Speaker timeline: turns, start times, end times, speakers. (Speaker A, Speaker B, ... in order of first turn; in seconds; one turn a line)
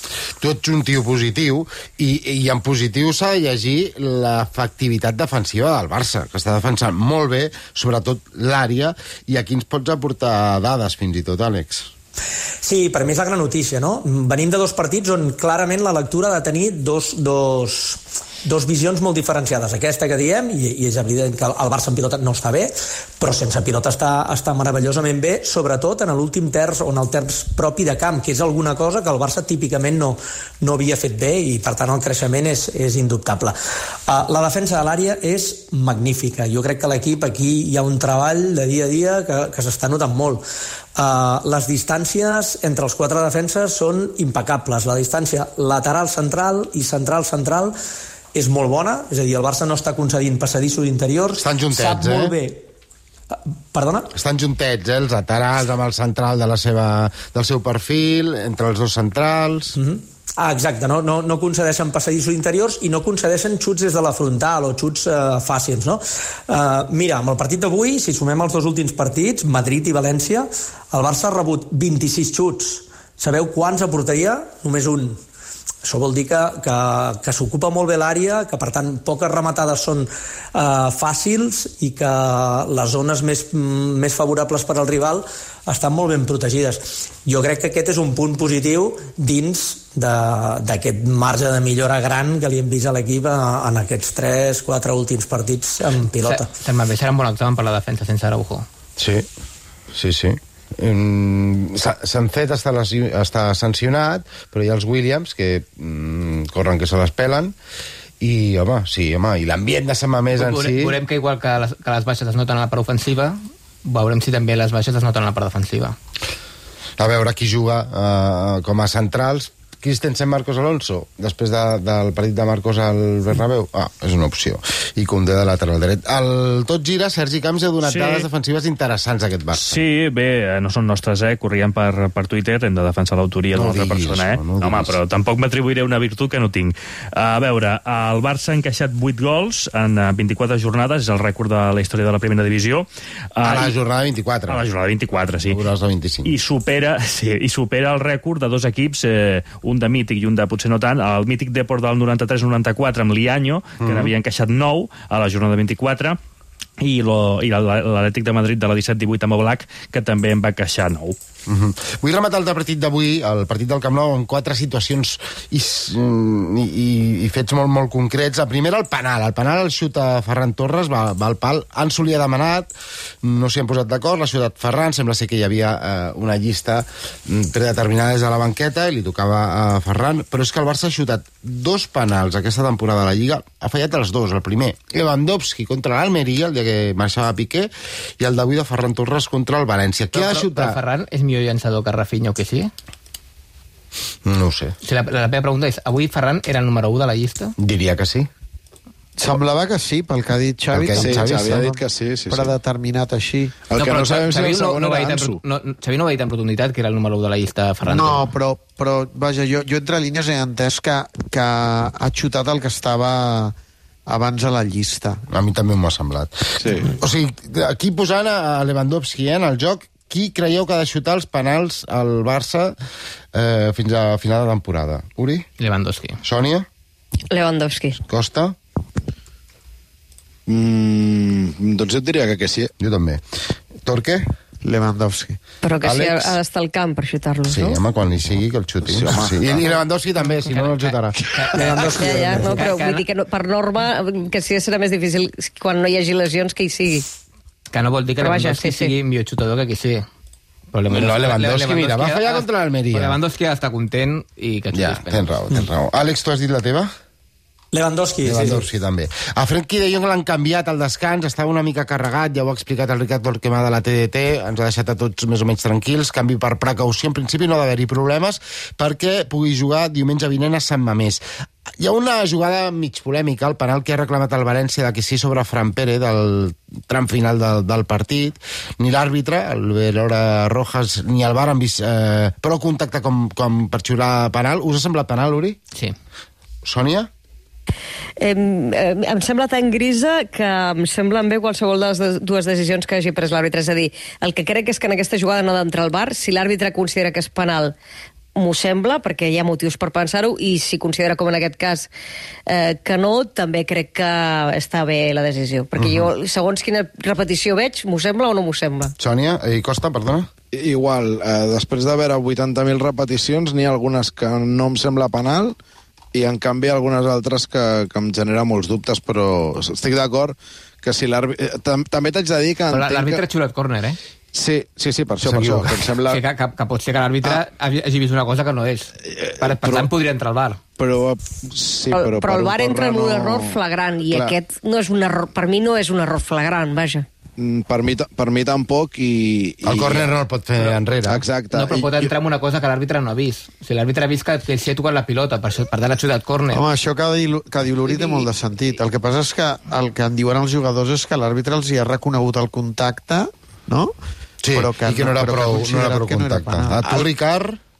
Speaker A: 0.4-11.9
Speaker B: 12.6-33.5
Speaker B: 34.1-40.4
Speaker B: 41.0-47.7
Speaker B: 48.3-52.6
Speaker A: 51.4-52.4
Speaker B: 53.7-54.1
Speaker A: 54.1-59.8
Speaker B: 59.8-75.2
Speaker B: 75.8-96.5
Speaker C: 96.2-98.7
Speaker A: 99.0-99.3
Speaker A: 99.9-107.5
Speaker A: 108.2-111.0
Speaker C: 110.3-116.0
Speaker A: 117.0-129.8
Speaker D: 127.8-128.3
Speaker D: 129.5-143.8
Speaker A: 133.5-135.0
Speaker A: 143.4-144.6
Speaker D: 144.5-145.6
Speaker A: 145.4-146.3
Speaker D: 146.2-156.2
Speaker A: 153.8-154.1
Speaker D: 156.8-161.2
Speaker A: 161.5-172.7
Speaker A: 173.2-190.8
Speaker C: 190.1-192.7
Speaker A: 194.2-194.7
Speaker C: 194.8-197.5
Speaker A: 197.6-198.3
Speaker E: 199.2-203.7
Speaker A: 200.7-201.6
Speaker F: 200.9-202.6
Speaker F: 203.7-205.4
Speaker C: 203.7-208.3
Speaker E: 207.9-213.5
Speaker E: 214.1-215.2
Speaker A: 215.3-222.8
Speaker F: 216.6-216.9
Speaker A: 223.3-225.5
Speaker C: 225.6-226.2
Speaker A: 226.2-226.7
Speaker G: 227.3-228.0
Speaker A: 228.0-228.6
Speaker F: 230.5-232.7
Speaker A: 232.8-233.2
Speaker A: 233.8-234.2
Speaker E: 234.6-235.4
Speaker G: 235.6-237.8
Speaker A: 235.8-236.3
Speaker A: 237.5-241.2
Speaker F: 238.8-239.7
Speaker C: 240.5-243.0
Speaker G: 241.5-247.1
Speaker C: 247.7-250.1
Speaker G: 248.2-248.9
Speaker C: 250.7-255.3
Speaker A: 250.9-253.2
Speaker A: 254.7-256.9
Speaker B: 257.7-258.6
Speaker A: 258.2-271.2
Speaker A: 271.8-285.6
Speaker A: 286.6-287.1
Speaker G: 288.2-297.7
Speaker G: 298.4-301.9
Speaker G: 302.5-308.9
Speaker A: 309.0-310.3
Speaker F: 310.5-315.5
Speaker F: 316.1-323.2
Speaker C: 322.7-324.0
Speaker F: 324.3-326.2
Speaker A: 325.2-325.7
Speaker C: 325.7-330.6
Speaker F: 329.1-329.9
Speaker F: 330.8-334.4
Speaker G: 331.9-337.1
Speaker F: 337.4-340.1
Speaker A: 339.6-341.2
Speaker C: 340.5-340.8
Speaker F: 341.0-342.1
Speaker C: 341.5-346.6
Speaker E: 346.5-353.9
Speaker C: 347.8-348.9
Speaker A: 354.4-357.6
Speaker E: 354.5-357.1